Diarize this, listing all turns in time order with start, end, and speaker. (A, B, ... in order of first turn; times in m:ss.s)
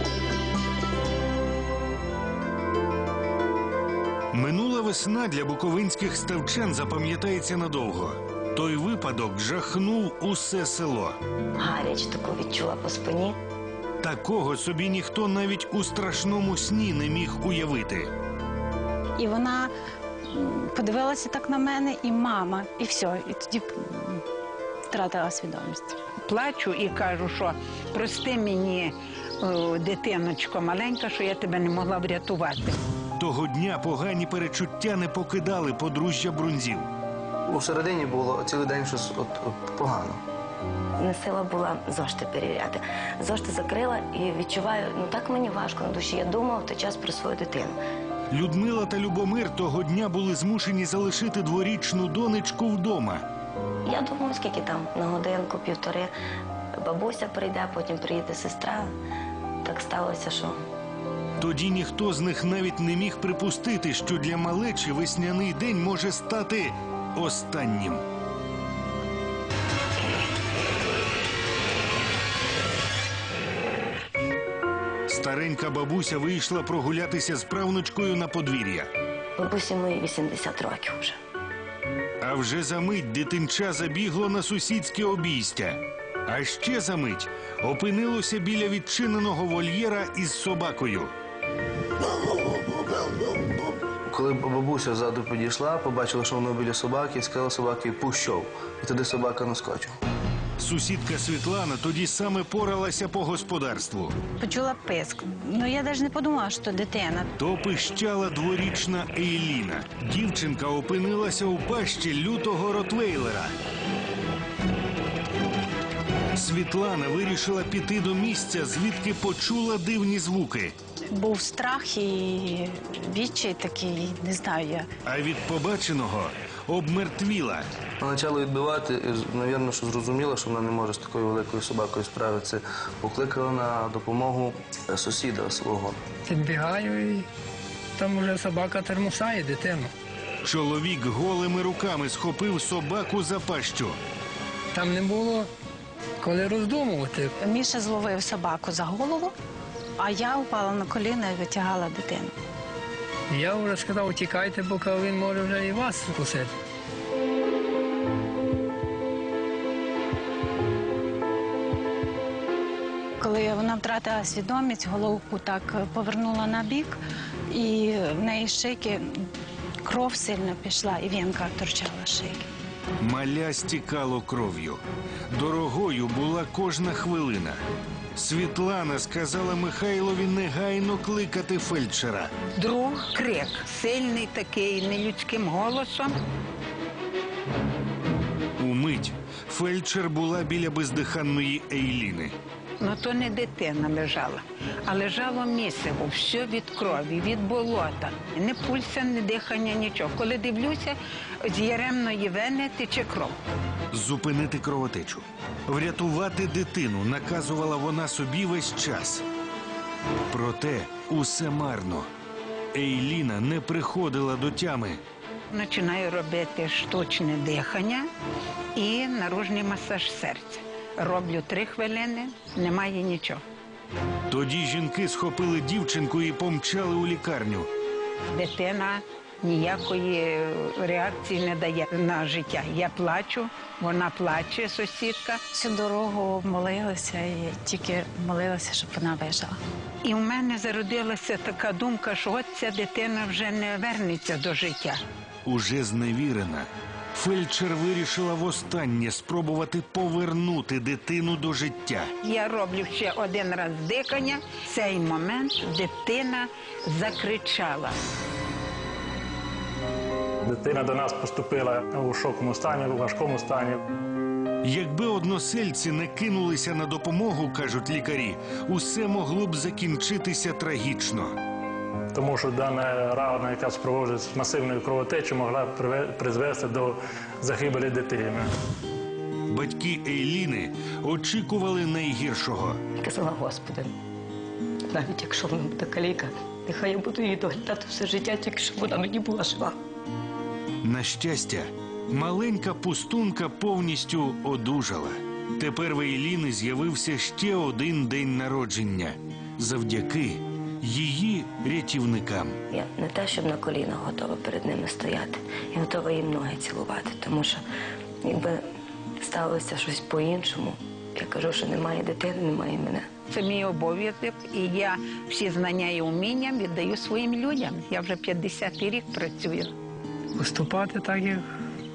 0:04.3-0:11.2 A
0:11.6-0:13.4 B
0:14.0-0:18.1 A
0:19.2-0:19.7 C
0:20.3-0:24.2 C
0:24.9-0:26.0 C
0:26.2-0:32.8 D
0:33.2-0:36.9 A
0:37.5-0:40.2 E
0:41.0-0:47.8 B
0:48.3-0:53.2 A
0:53.9-0:56.1 B
0:56.8-0:58.9 B
0:59.6-1:00.6 B
1:01.4-1:08.0 A
1:15.1-1:18.9 A
1:19.4-1:21.2 B
1:22.2-1:31.1 A
1:34.1-1:40.0 E
1:40.6-1:44.2 A
1:44.4-1:47.3 C
1:47.4-1:53.5 A
1:56.4-2:00.8 A
2:01.1-2:04.9 C
2:05.0-2:07.7 A
2:08.0-2:16.0 E
2:16.3-2:17.3 F
2:18.0-2:19.9 F
2:20.4-2:24.0 A
2:24.7-2:25.5 F
2:26.2-2:27.3 F
2:27.4-2:29.3 C
2:30.0-2:32.3 C
2:33.3-2:36.6 F
2:43.2-2:47.0 C
2:47.5-2:49.3 C
2:49.8-2:52.5 C
2:53.0-2:54.8 A
2:55.3-2:57.6 A
2:58.2-3:02.3 A
3:02.6-3:06.2 D
3:08.6-3:12.4 A
3:12.8-3:23.4 D
3:23.9-3:29.2 A
3:30.3-3:32.1 A
3:32.7-3:35.0 A
3:35.5-3:38.1 D
3:38.8-3:43.4 D
3:44.3-3:47.7 A
3:48.3-3:55.4 D
3:55.5-3:59.6 C
4:00.0-4:05.0 D
4:05.4-4:12.1 A
4:12.2-4:18.0 D
4:20.4-4:23.8 G
4:24.6-4:31.4 A
4:32.1-4:38.5 G
4:39.5-4:42.8 A
4:43.0-4:43.9 B
4:44.9-4:49.8 B
4:50.8-5:02.6 A
5:02.7-5:07.6 B
5:08.2-5:08.6 B
5:09.2-5:13.1 B
5:13.3-5:19.7 D
5:20.4-5:21.5 F